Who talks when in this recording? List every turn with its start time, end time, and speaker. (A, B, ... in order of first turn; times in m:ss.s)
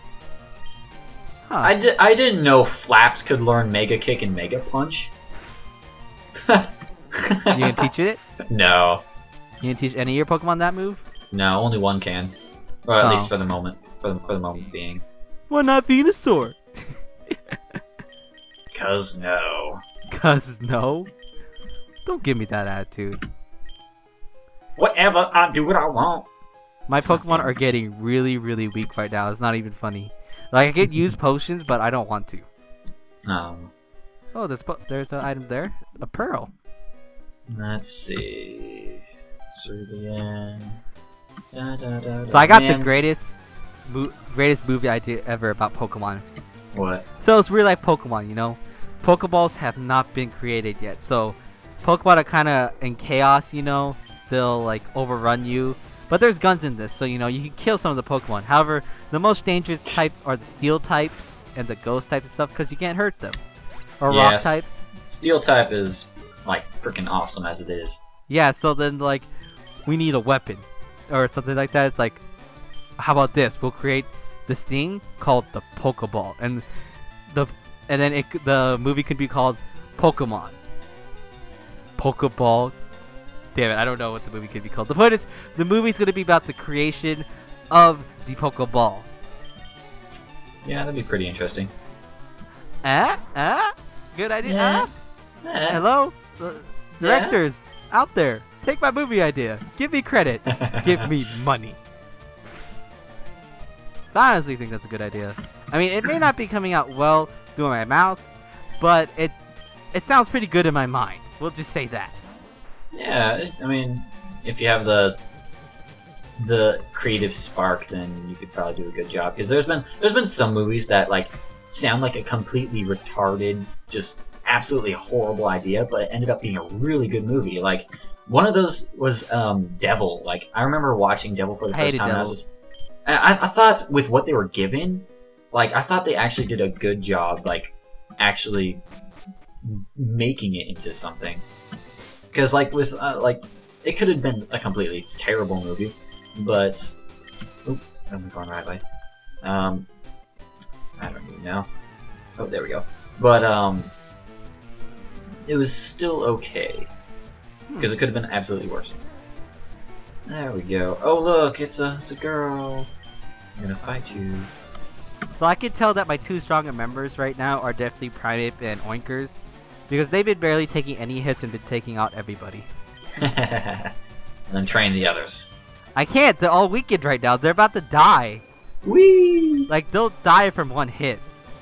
0:01.5-0:01.7 A
0:01.6-0:05.1 B
0:06.4-0:07.9 B
0:07.5-0:08.2 A
0:08.5-0:09.0 B
0:09.6-0:11.0 A
0:11.3-0:12.4 B
0:12.9-0:15.0 B
0:13.0-0:13.3 A
0:15.5-0:16.6 A
0:17.3-0:17.6 A
0:18.7-0:19.8 B
0:20.1-0:21.1 A
0:22.0-0:23.2 A
0:24.8-0:26.3 B
0:26.9-0:32.5 A
0:27.1-0:27.5 B
0:33.3-0:33.7 B
0:34.3-0:36.5 A
0:37.5-0:39.0 B
0:39.5-0:40.8 B
0:41.5-0:42.9 B
0:42.3-0:43.4 A
0:43.9-0:46.2 A
0:46.7-0:47.1 B
0:47.2-1:03.4 A
1:04.0-1:04.8 A
1:04.1-1:08.0 B
1:08.3-1:09.3 A
1:09.9-1:12.2 A
1:13.0-1:16.6 A
1:17.3-1:20.6 A
1:22.0-1:22.8 A
1:23.6-1:29.1 A
1:30.6-1:31.7 B
1:32.8-1:34.9 A
1:34.4-1:34.9 B
1:35.4-1:35.8 B
1:35.7-1:41.8 A
1:37.0-1:37.4 B
1:40.5-1:41.1 B
1:44.1-1:48.2 A
1:48.8-1:49.4 A
1:49.9-1:52.2 A
1:52.9-1:55.2 B
1:56.4-2:12.5 B
2:11.7-2:12.4 A
2:13.1-2:18.8 B
2:19.6-2:21.4 B
2:22.3-2:27.0 B
2:27.6-2:28.8 B
2:29.4-2:29.9 B
2:31.0-2:31.7 B
2:32.4-2:33.9 B
2:35.5-2:36.9 B
2:37.7-2:38.0 A
2:37.8-2:39.0 B
2:40.3-2:42.9 B
2:43.6-2:44.5 B
2:45.3-2:49.4 A
2:49.9-2:52.7 A
2:53.2-2:53.9 B
2:54.5-2:55.5 B
2:56.0-2:58.4 A
2:58.8-2:59.7 B
2:59.7-3:01.2 A